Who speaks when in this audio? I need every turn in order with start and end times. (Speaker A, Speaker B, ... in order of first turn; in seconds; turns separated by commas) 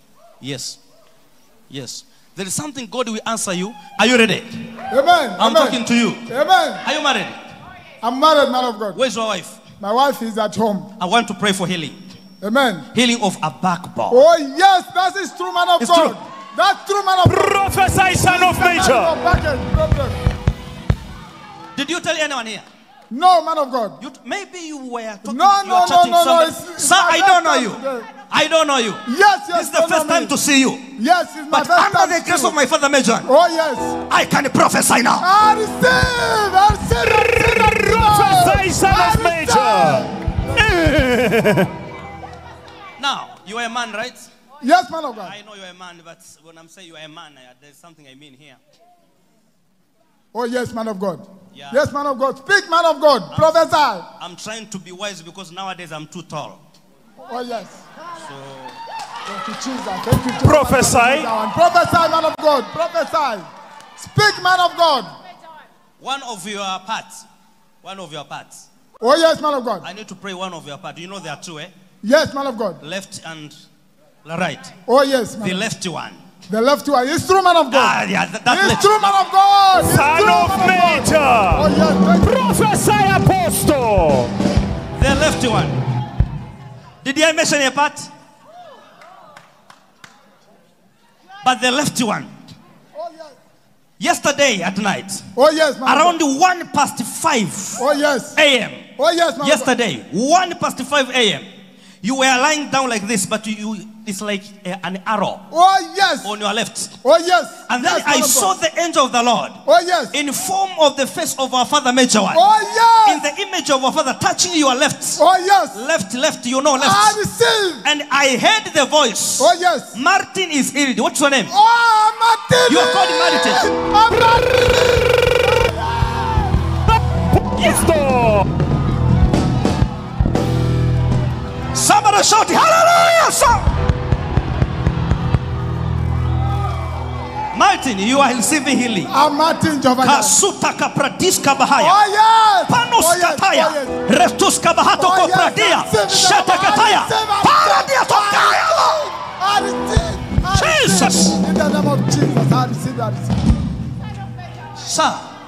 Speaker A: 0.4-0.8, Speaker A: 1.7-4.7, Speaker B: 4.9-6.8, Speaker A: 5.4-6.3, Speaker A: 6.8-7.4, Speaker B: 8.0-9.0, Speaker A: 8.9-9.6, Speaker B: 9.8-10.9, Speaker A: 11.0-12.0, Speaker B: 12.4-12.9, Speaker A: 12.9-14.2, Speaker B: 14.1-20.2, Speaker A: 15.8-16.2, Speaker C: 17.3-19.1, Speaker A: 21.8-22.6, Speaker B: 23.1-24.0, Speaker A: 24.0-30.9, Speaker B: 25.2-28.1, Speaker B: 29.1-30.3, Speaker B: 31.0-32.5, Speaker A: 31.5-33.3, Speaker B: 33.2-34.0, Speaker A: 34.1-35.3, Speaker B: 35.2-40.1, Speaker C: 37.8-41.7, Speaker A: 43.0-44.3, Speaker B: 44.6-45.3, Speaker A: 45.2-48.6, Speaker B: 50.3-54.1, Speaker A: 51.5-51.8, Speaker A: 53.3-53.6, Speaker A: 54.2-56.6, Speaker B: 57.3-57.8, Speaker A: 58.2-58.8, Speaker B: 59.3-63.5, Speaker C: 60.4-61.3, Speaker B: 64.0-65.1, Speaker A: 66.0-67.2, Speaker A: 67.8-68.6, Speaker B: 69.0-69.8, Speaker A: 69.8-71.7, Speaker B: 72.0-72.8, Speaker A: 72.8-73.5, Speaker A: 74.2-74.7, Speaker B: 74.9-75.6, Speaker A: 75.4-76.2, Speaker B: 76.5-82.5, Speaker A: 77.7-79.2, Speaker C: 79.8-81.7, Speaker C: 82.2-84.3, Speaker A: 85.0-85.8, Speaker A: 87.0-88.1, Speaker A: 91.4-92.3, Speaker B: 93.0-93.3, Speaker A: 94.0-95.3, Speaker B: 95.4-96.2, Speaker A: 95.8-98.9, Speaker B: 97.8-98.4, Speaker B: 99.0-99.7, Speaker A: 99.4-101.5, Speaker A: 102.0-105.5, Speaker B: 105.5-106.3, Speaker A: 106.2-107.0, Speaker B: 107.0-108.5, Speaker A: 107.7-109.6, Speaker B: 109.7-110.2, Speaker A: 110.1-112.4, Speaker B: 112.3-113.2, Speaker A: 113.1-115.2, Speaker B: 115.2-115.8, Speaker A: 115.7-117.2, Speaker B: 116.8-117.8, Speaker A: 117.8-121.5, Speaker B: 119.4-120.0, Speaker B: 121.5-126.6, Speaker A: 122.7-123.7, Speaker C: 127.4-128.5, Speaker A: 127.6-127.9, Speaker A: 131.7-133.7, Speaker A: 137.5-139.1, Speaker B: 139.1-140.4, Speaker A: 140.0-142.0, Speaker B: 141.8-144.0, Speaker A: 142.7-149.0, Speaker B: 145.0-153.4, Speaker A: 150.5-151.4, Speaker A: 154.8-155.2